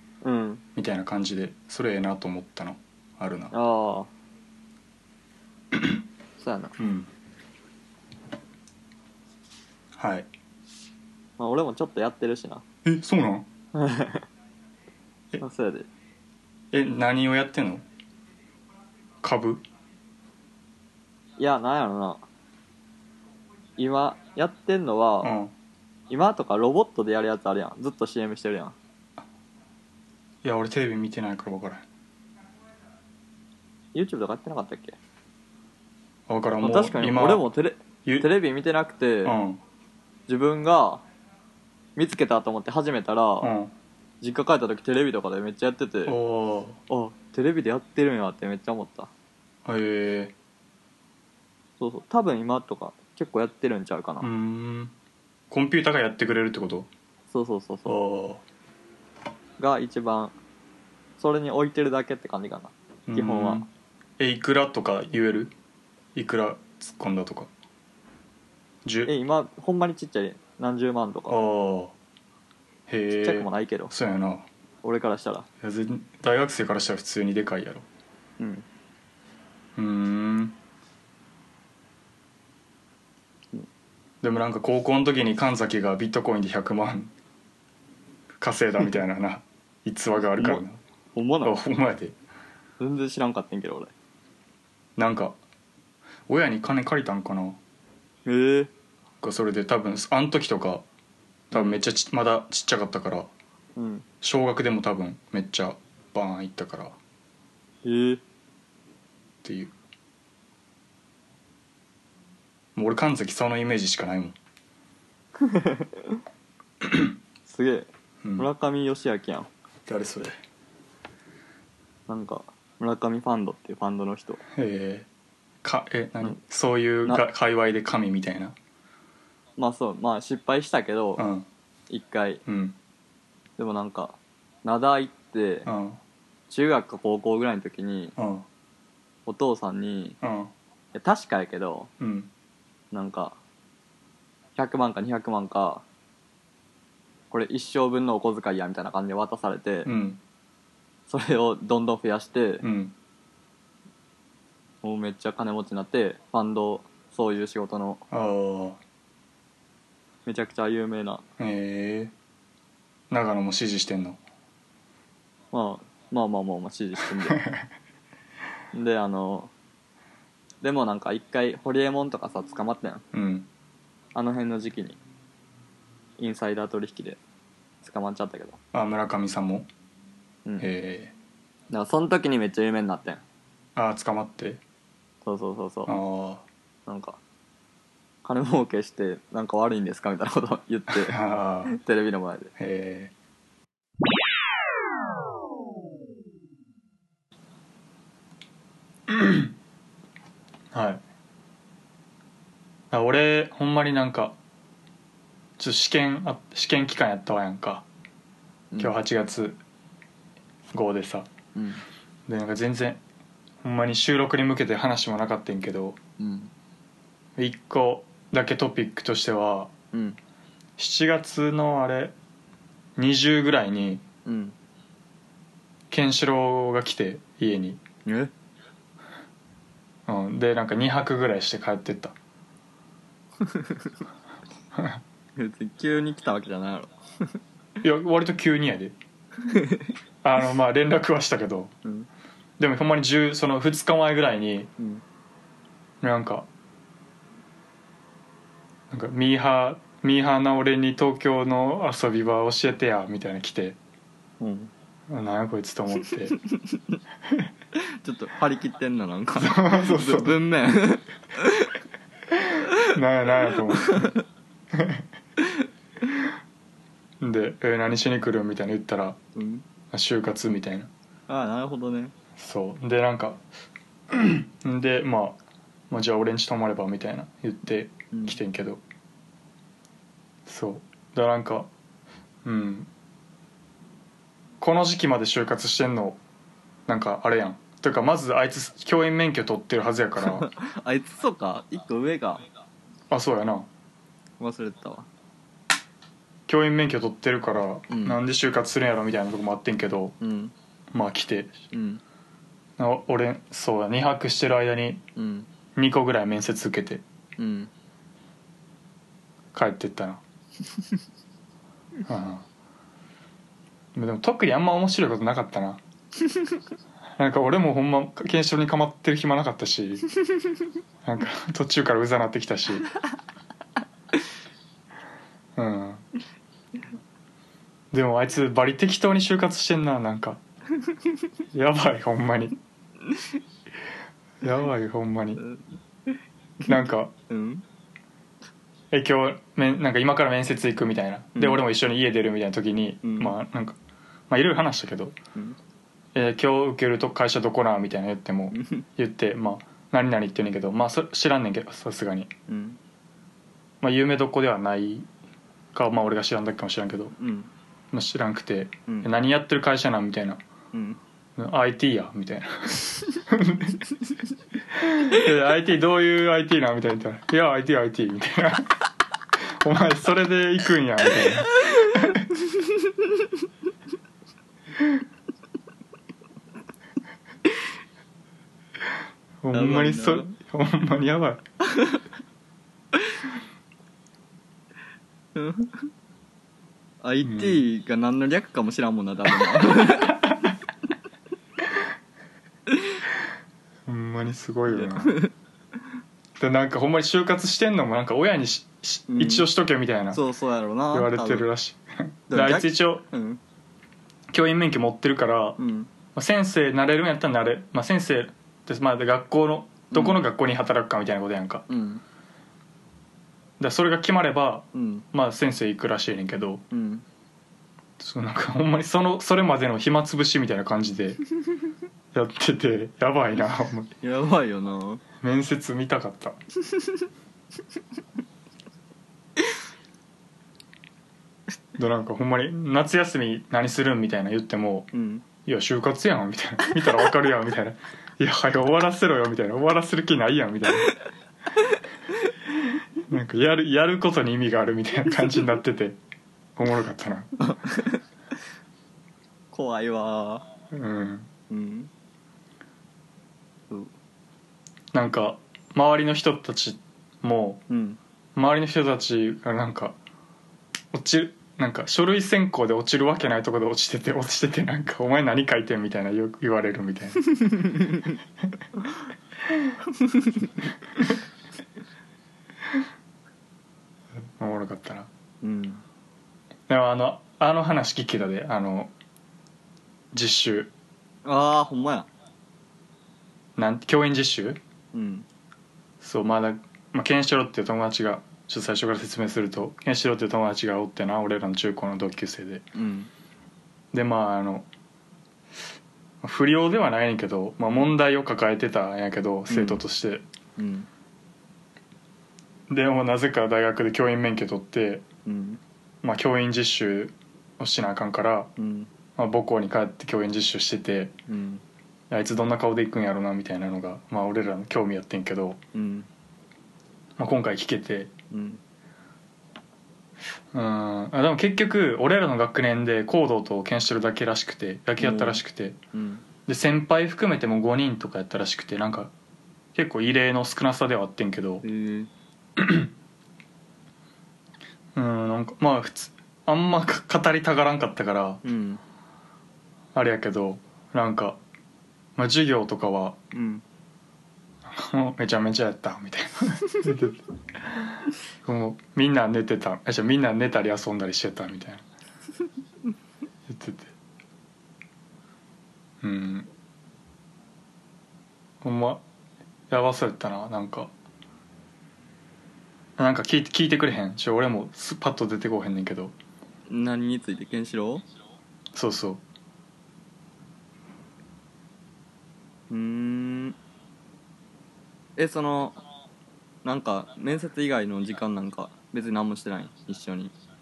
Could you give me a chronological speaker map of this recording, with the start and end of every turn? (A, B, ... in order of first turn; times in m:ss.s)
0:00.2-0:00.6 A
0:00.8-0:03.5 B
0:03.5-0:04.1 A
0:05.7-0:06.0 B
0:06.4-0:06.8 A
0:06.8-0:07.1 B
0:10.0-0:10.3 B
0:11.4-0:12.6 A
0:12.8-0:13.5 B
0:13.7-0:14.3 A
0:15.4-0:15.9 A
0:16.7-0:17.8 B
0:19.2-0:19.6 B
0:21.4-0:22.2 A
0:23.8-0:25.3 A
0:25.2-0:25.5 B
0:26.1-0:28.8 A
0:30.4-0:31.8 B
0:33.9-0:35.0 A
0:36.3-0:37.4 B
0:36.6-0:39.3 A
0:39.2-0:39.6 B
0:40.3-0:41.0 A
0:42.0-0:43.5 A
0:43.4-0:43.7 B
0:44.2-0:46.2 A
0:46.0-0:46.8 B
0:46.9-0:49.1 A
0:49.6-0:50.3 B
0:51.8-0:54.3 A
0:54.2-0:54.9 B
0:55.5-0:56.9 B
0:57.3-0:58.0 A
0:57.8-0:58.4 B
0:59.6-1:00.3 A
1:01.2-1:03.6 A
1:03.1-1:03.7 B
1:04.2-1:05.5 B
1:06.1-1:07.5 B
1:08.8-1:09.1 B
1:09.0-1:11.4 A
1:11.3-1:11.9 B
1:12.9-1:14.5 B
1:13.2-1:13.9 A
1:14.8-1:15.5 A
1:15.6-1:17.8 B
1:18.4-1:18.6 A
1:19.8-1:20.6 B
1:24.2-1:27.1 B
1:28.4-1:30.8 B
1:30.4-1:31.6 A
1:31.4-1:32.2 B
1:32.8-1:33.9 A
1:35.0-1:35.4 B
1:36.3-1:37.6 B
1:38.2-1:38.7 A
1:39.2-1:40.8 B
1:41.5-1:43.3 B
1:41.5-1:41.8 A
1:43.8-1:44.0 A
1:44.2-1:47.0 B
1:47.8-1:48.2 A
1:49.4-1:49.7 B
1:52.8-1:54.4 B
1:55.4-1:56.2 A
1:56.8-1:57.1 B
1:57.4-1:59.5 A
1:58.2-1:58.5 B
1:59.8-2:00.4 B
2:02.1-2:04.4 A
2:04.5-2:05.1 B
2:05.6-2:08.5 B
2:09.6-2:11.2 A
2:11.2-2:11.5 B
2:11.9-2:12.4 A
2:12.4-2:12.8 B
2:13.6-2:15.7 A
2:15.6-2:16.0 B
2:16.5-2:18.1 A
2:18.2-2:18.4 B
2:19.2-2:20.2 A
2:20.2-2:20.5 B
2:20.9-2:21.9 A
2:22.0-2:22.3 B
2:22.9-2:23.4 A
2:24.6-2:25.8 A
2:27.3-2:29.9 A
2:29.8-2:30.2 B
2:31.1-2:32.6 A
2:32.6-2:32.9 B
2:34.8-2:38.0 A
2:38.1-2:38.8 B
2:40.2-2:41.2 A
2:41.4-2:42.1 B
2:43.1-2:44.2 B
2:45.5-2:47.4 A
2:47.2-2:47.7 B
2:48.7-2:49.5 A
2:50.6-2:53.0 A
2:53.1-2:53.5 B
2:54.1-2:55.0 A
2:56.2-2:57.2 A
2:57.8-2:58.6 A
2:58.7-2:59.7 B
3:00.6-3:01.1 B
3:01.7-3:03.2 A
3:03.8-3:04.6 B
3:05.2-3:06.0 A
3:05.9-3:06.4 B
3:06.9-3:07.2 A
3:08.2-3:12.5 A
3:10.9-3:11.8 B
3:12.6-3:13.1 B
3:19.1-3:19.5 B
3:20.7-3:21.0 B
3:22.9-3:24.4 B
3:25.6-3:27.8 B
3:28.8-3:29.6 B
3:30.7-3:31.3 B
3:31.5-3:31.8 A
3:32.3-3:33.0 B
3:33.6-3:36.0 B
3:36.2-3:36.5 A
3:37.4-3:39.7 B
3:39.9-3:40.2 A
3:40.8-3:42.1 B
3:43.0-3:44.0 B
3:44.2-3:44.5 A
3:45.9-3:47.8 B
3:48.0-3:48.3 A
3:50.1-3:52.2 B
3:53.4-3:53.9 A
3:55.4-3:56.9 A
3:57.8-3:59.0 B
3:59.4-3:59.9 A
4:00.2-4:01.7 B
4:02.6-4:04.7 B
4:06.0-4:06.5 B
4:08.9-4:13.8 B
4:14.4-4:14.7 A
4:15.1-4:16.4 B
4:17.8-4:21.7 A
4:19.4-4:20.4 B
4:22.3-4:24.1 B
4:23.7-4:24.1 A
4:24.7-4:25.0 B
4:27.2-4:29.2 B
4:29.3-4:29.6 A
4:29.9-4:30.9 B
4:31.3-4:32.1 A
4:32.4-4:33.4 B
4:34.1-4:38.8 B
4:38.1-4:38.4 A
4:40.4-4:41.7 B
4:42.4-4:42.9 B
4:44.6-4:46.2 B
4:46.9-4:50.5 B
4:50.2-4:52.4 A
4:53.1-4:53.7 B
4:54.4-4:55.1 A
4:56.5-5:00.2 B
4:57.9-4:58.2 A
5:00.2-5:00.5 A
5:00.9-5:01.6 B
5:01.7-5:02.0 A
5:02.8-5:05.0 B
5:05.2-5:05.5 A
5:05.8-5:07.0 B
5:07.4-5:07.7 A
5:09.5-5:10.2 B
5:12.0-5:12.4 B
5:13.9-5:15.8 B
5:17.2-5:20.1 B
5:21.0-5:22.9 B
5:25.6-5:26.0 B
5:27.9-5:30.4 B
5:31.5-5:32.6 B
5:34.4-5:35.4 B
5:36.6-5:37.1 B
5:37.3-5:37.6 A
5:38.9-5:43.8 B
5:41.3-5:41.6 A
5:43.0-5:43.3 A
5:44.3-5:45.2 B
5:46.1-5:52.3 B
5:48.5-5:48.8 A
5:52.5-5:52.8 A
5:53.8-5:55.1 B
5:55.7-5:57.2 B
5:57.2-5:57.5 A
5:57.9-6:00.4 B
6:00.7-6:01.0 A
6:01.4-6:03.8 B
6:04.7-6:08.7 B
6:09.6-6:12.2 B
6:19.4-6:21.4 B
6:19.5-6:20.3 A
6:21.7-6:22.0 A
6:25.3-6:25.8 A
6:27.0-6:30.2 A
6:27.2-6:27.6 B
6:29.6-6:30.1 B
6:33.8-6:35.2 B
6:34.7-6:35.3 A
6:36.4-6:40.2 B
6:39.1-6:39.5 A
6:40.1-6:41.5 A
6:40.9-6:43.0 B
6:42.3-6:43.4 A
6:44.3-6:45.6 B
6:45.6-6:45.9 A
6:46.1-6:51.6 B
6:49.9-6:50.2 A
6:51.7-6:52.0 A
6:53.6-6:56.6 B
6:54.7-6:55.0 A
6:56.7-6:57.0 A
6:58.0-7:01.2 B
7:02.1-7:03.9 B
7:04.0-7:05.0 A
7:05.2-7:06.4 B
7:11.8-7:20.9 B
7:14.9-7:15.2 A
7:23.1-7:26.0 B
7:26.6-7:27.3 B
7:27.4-7:28.0 A
7:29.5-7:30.5 A
7:30.7-7:31.3 B
7:31.5-7:31.9 A
7:34.9-7:37.6 B
7:37.7-7:38.0 A
7:38.4-7:40.0 B
7:40.9-7:47.3 B
7:47.4-7:48.1 A
7:50.0-7:50.5 A
7:54.4-7:55.1 B
7:55.4-7:55.8 A
7:56.7-7:58.9 B
8:00.1-8:00.7 B
8:01.2-8:02.1 A
8:03.6-8:04.6 B
8:04.9-8:05.2 A
8:06.0-8:12.6 B
8:12.7-8:13.1 A
8:13.9-8:14.7 B
8:16.2-8:20.2 B
8:19.5-8:19.8 A
8:20.6-8:20.9 A
8:22.7-8:25.0 B
8:25.2-8:25.6 A
8:26.0-8:28.5 B
8:28.6-8:28.9 A
8:29.2-8:31.2 B
8:31.3-8:31.6 A
8:32.1-8:35.6 B
8:35.7-8:36.1 A
8:37.2-8:38.1 B
8:38.3-8:38.6 A
8:40.5-8:45.8 B
8:45.0-8:45.4 A
8:45.9-8:46.2 A
8:46.4-8:49.1 B
8:49.7-8:51.6 B
8:51.6-8:52.1 A
8:52.6-8:52.9 B
8:54.9-8:58.4 B
8:58.4-8:58.8 A
8:59.9-9:01.4 B
9:02.2-9:03.2 B
9:03.3-9:03.6 A
9:04.6-9:07.2 B
9:08.4-9:11.8 B
9:13.5-9:13.9 B
9:16.0-9:16.5 B
9:18.6-9:19.0 B
9:19.7-9:20.9 B
9:23.0-9:26.2 B
9:26.7-9:28.0 A
9:28.7-9:29.2 B
9:32.7-9:33.6 A
9:35.2-9:35.8 A
9:36.6-9:40.3 A